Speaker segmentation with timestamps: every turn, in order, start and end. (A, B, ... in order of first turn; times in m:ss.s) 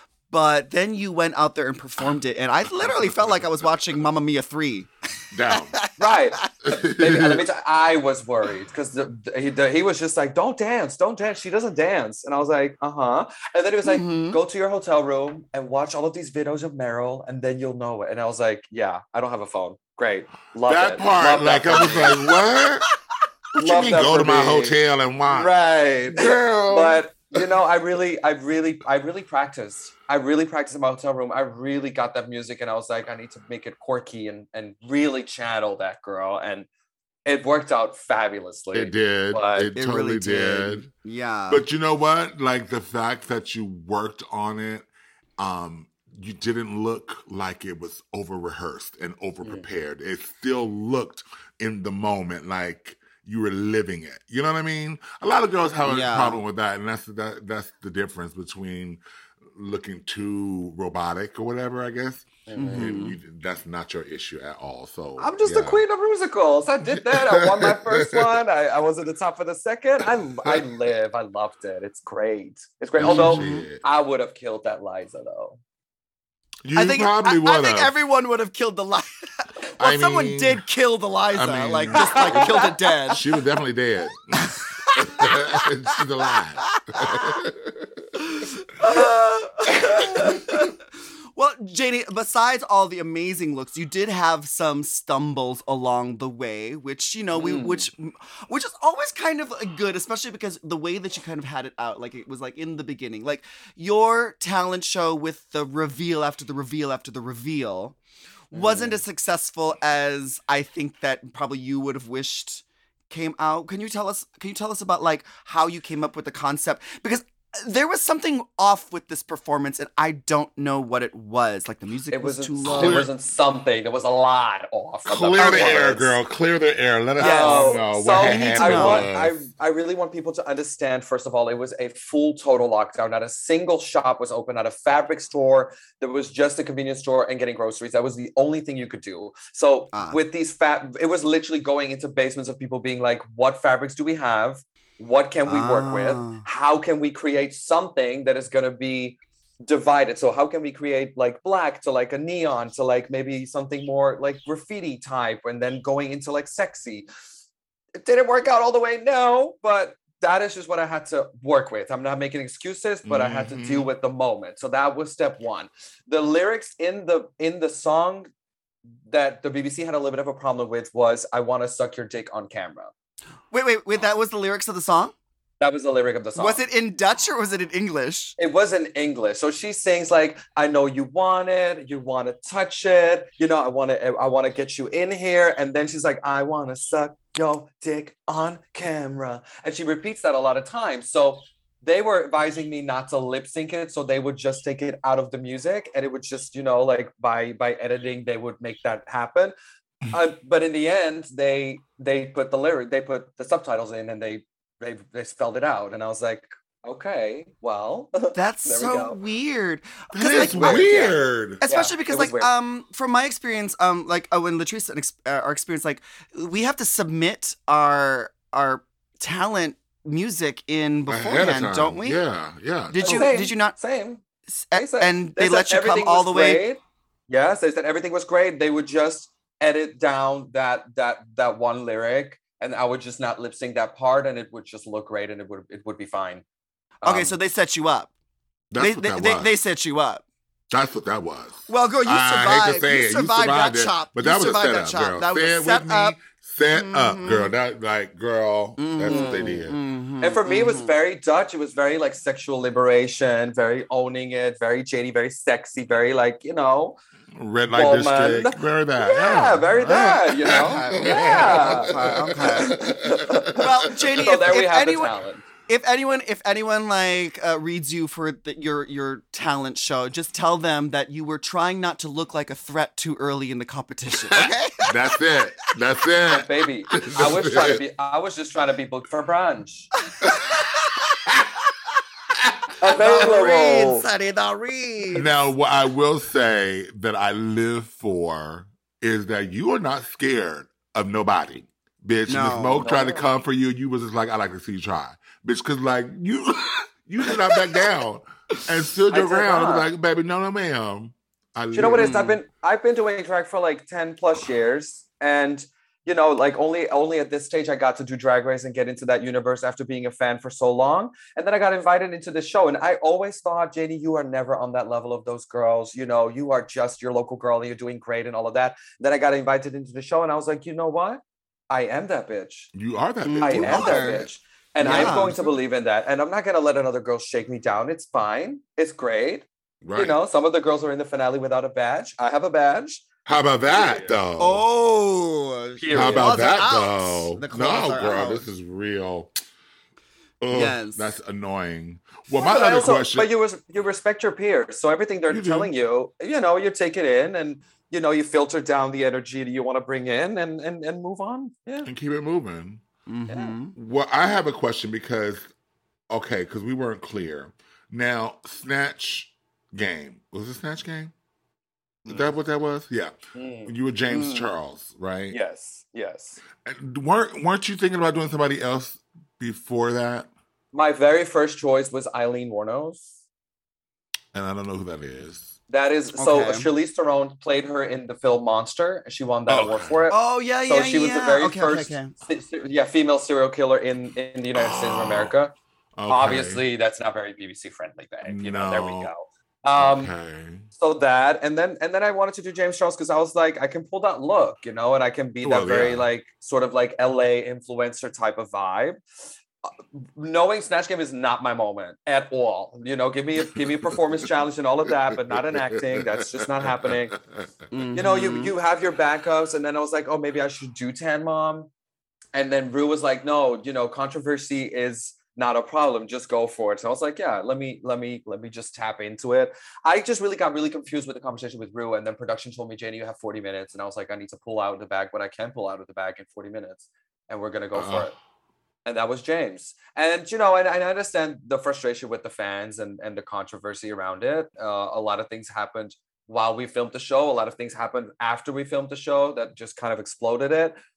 0:00.3-0:04.9 A
0:02.7-0:03.7 B
0:05.3-0:05.8 B
0:05.5-0:06.4 A
0:06.0-0:22.2 C
0:06.6-0:07.4 B
0:13.8-0:14.4 A
0:20.6-0:22.8 B
0:23.6-0:36.7 C
0:23.6-0:25.5 B
0:26.1-0:27.4 B
0:37.2-0:39.7 C
0:38.7-0:40.8 B
0:39.7-0:41.6 A
0:41.5-0:44.9 B
0:45.4-1:05.8 B
0:55.8-0:56.4 A
1:02.5-1:02.9 C
1:02.5-1:03.2 A
1:05.2-1:15.6 C
1:07.0-1:08.3 B
1:13.0-1:13.8 B
1:13.0-1:13.7 A
1:16.6-1:17.9 B
1:16.7-1:23.2 A
1:19.8-1:20.6 B
1:21.3-1:22.6 B
1:22.0-1:22.7 C
1:23.1-1:28.0 B
1:24.4-1:25.6 A
1:26.6-1:27.4 A
1:28.2-1:30.8 A
1:31.3-1:48.0 A
1:37.3-1:37.9 C
1:48.5-2:03.1 A
1:48.5-1:49.0 C
2:02.1-2:06.1 C
2:02.6-2:03.1 B
2:05.0-2:09.4 B
2:05.4-2:06.0 A
2:07.2-2:07.8 A
2:07.2-2:37.1 C
2:08.5-2:09.1 A
2:19.9-2:20.2 A
2:25.4-2:26.4 A
2:38.0-2:48.3 C
2:43.0-2:43.9 B
2:49.0-2:52.9 C
2:53.5-2:55.1 A
2:55.6-2:56.6 C
2:56.4-2:58.4 A
2:58.4-3:19.5 C
3:20.1-3:29.2 C
3:28.3-3:30.9 A
3:30.1-3:31.6 B
3:30.3-3:32.5 C
3:31.6-3:42.2 A
3:41.1-3:43.2 B
3:42.9-3:43.8 A
3:43.0-3:44.2 C
3:44.5-3:46.6 A
3:44.7-3:56.4 C
3:57.0-3:57.3 C
3:57.0-3:58.1 A
3:58.7-3:59.5 B
3:58.8-4:00.2 A
4:00.7-4:09.8 B
4:01.7-4:06.2 A
4:06.7-4:07.5 A
4:08.8-4:10.9 A
4:09.0-4:09.7 C
4:10.2-4:17.0 C
4:17.3-4:23.6 B
4:17.7-4:25.4 C
4:20.5-4:22.8 A
4:23.5-4:25.1 A
4:25.7-4:34.9 A
4:34.8-4:37.8 B
4:36.3-4:39.9 C
4:40.2-4:41.0 A
4:42.8-4:44.0 C
4:42.8-4:45.3 A
4:45.1-5:02.2 B
4:52.3-4:52.9 A
4:52.8-4:53.3 C
4:59.1-4:59.9 C
5:01.7-5:22.7 C
5:01.9-5:02.4 A
5:22.7-5:24.2 B
5:23.2-5:24.3 A
5:23.4-5:33.1 C
5:24.8-5:25.5 B
5:24.8-5:25.3 A
5:29.8-5:30.2 B
5:33.2-5:34.6 B
5:33.7-5:34.1 C
5:34.4-5:38.4 A
5:35.8-5:36.4 C
5:35.9-5:39.3 B
5:40.4-5:43.3 B
5:40.5-5:41.1 A
5:42.3-5:51.9 C
5:45.3-5:45.7 B
5:51.8-5:52.8 B
5:53.1-5:53.7 A
5:53.3-5:53.5 C
5:53.7-5:55.5 B
5:56.1-6:01.1 B
6:02.0-6:03.1 B
6:03.3-6:04.4 C
6:03.6-6:05.4 B
6:05.3-6:06.4 C
6:06.6-6:10.3 B
6:10.7-6:13.1 C
6:14.3-6:15.6 B
6:15.7-6:25.5 C
6:16.1-6:16.7 A
6:19.5-6:20.1 B
6:20.1-6:22.1 A
6:24.5-6:25.3 B
6:26.0-6:26.6 B
6:26.1-6:30.1 C
6:28.2-6:29.1 B
6:29.8-6:30.7 B
6:30.8-6:39.0 C
6:35.4-6:36.1 B
6:39.6-6:47.2 C
6:45.3-6:47.4 B
6:47.7-6:48.5 A
6:47.9-6:51.7 C
6:52.3-7:08.1 C
7:07.7-7:08.1 B
7:08.8-7:20.8 C